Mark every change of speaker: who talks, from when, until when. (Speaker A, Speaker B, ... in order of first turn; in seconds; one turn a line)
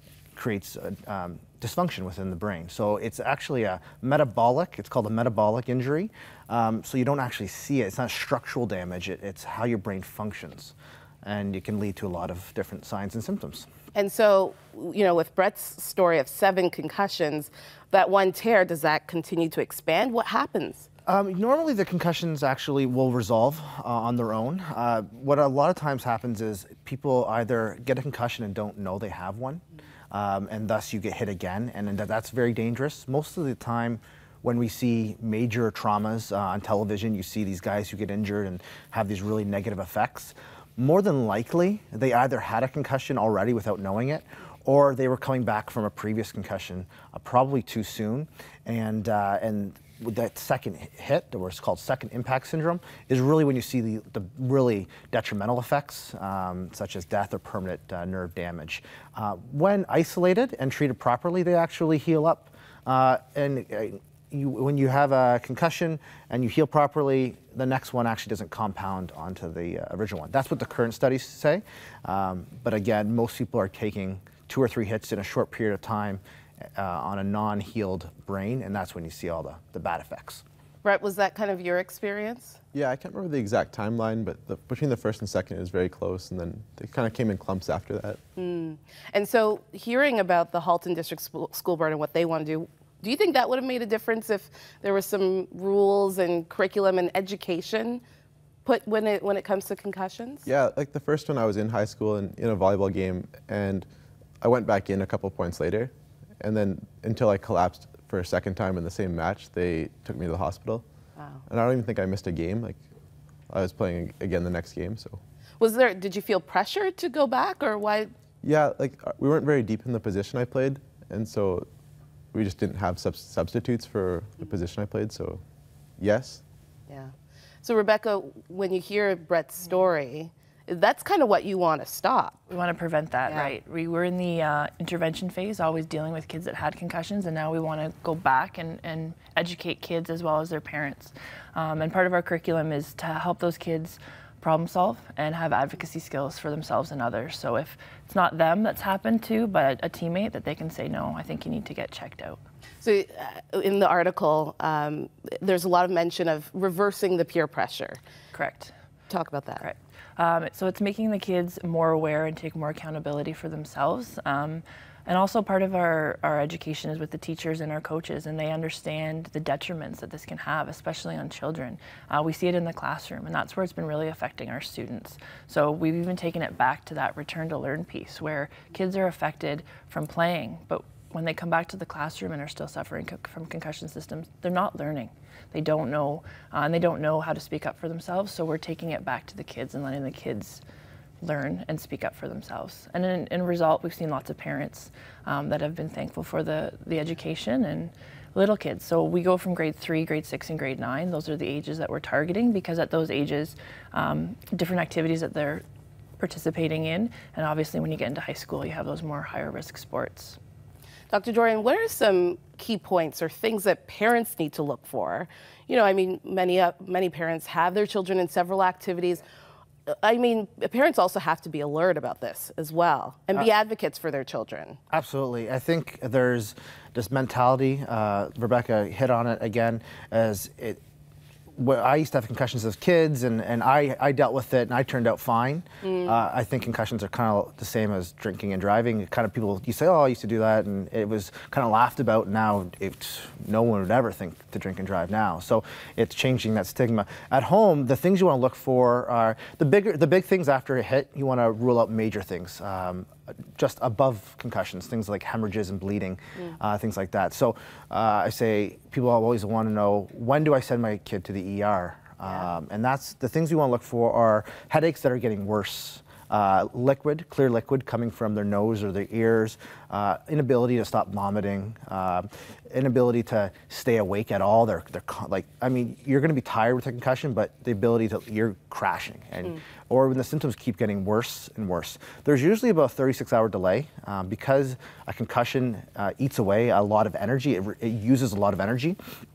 Speaker A: 0.3-13.7
Speaker B: 13.9-20.9
Speaker A: 21.1-76.2
Speaker A: 76.8-80.4
Speaker B: 80.8-82.6
Speaker C: 82.7-88.2
Speaker B: 88.4-98.0
Speaker B: 98.6-100.5
Speaker C: 100.5-103.8
Speaker C: 104.4-110.8
Speaker B: 111.2-111.4
Speaker C: 111.5-112.8
Speaker C: 113.5-115.2
Speaker B: 115.6-118.1
Speaker C: 118.4-121.7
Speaker C: 122.3-125.4
Speaker C: 126.0-126.4
Speaker B: 126.9-132.4
Speaker D: 132.5-152.4
Speaker B: 133.3-133.5
Speaker B: 152.8-158.0
Speaker D: 158.3-158.7
Speaker B: 159.1-159.6
Speaker D: 159.6-190.6
Speaker D: 191.2-205.6
Speaker D: 206.2-210.4
Speaker B: 211.1-219.2
Speaker B: 219.9-224.8
Speaker A: 224.9-230.8
Speaker A: 231.5-289.0
Speaker B: 235.8-236.2